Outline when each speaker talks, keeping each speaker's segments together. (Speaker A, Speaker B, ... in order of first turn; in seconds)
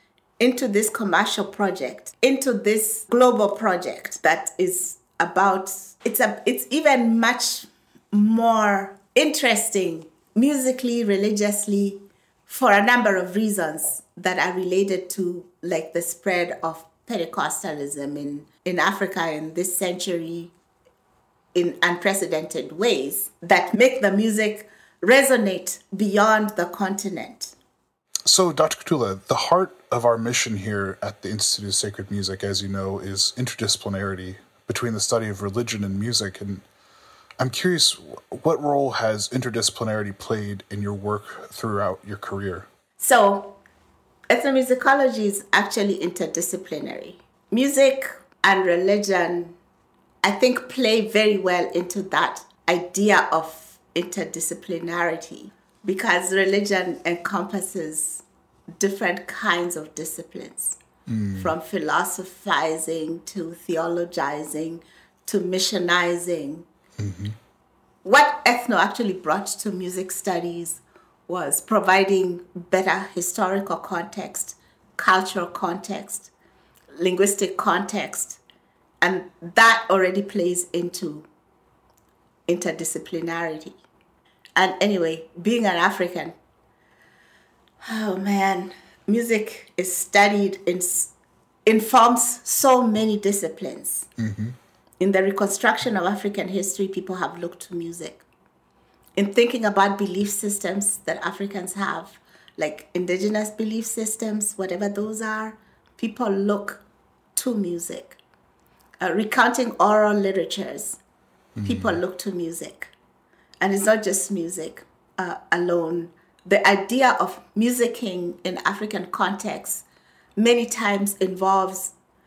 Speaker A: 0.4-20.5, 21.5-27.5, 43.0-43.6, 44.3-49.5, 50.2-58.2, 58.8-60.8, 61.4-66.7, 68.0-76.3, 77.0-78.4, 79.0-81.3, 82.5-83.8, 84.6-86.3, 87.8-91.1, 91.7-94.1, 95.0-98.2, 99.2-106.8, 107.3-108.2, 109.0-111.0, 111.6-112.9, 113.6-119.8, 120.4-121.9
Speaker B: 28.2-36.6, 37.4-42.7, 61.1-61.5, 67.0-67.3, 94.2-94.6, 111.6-112.0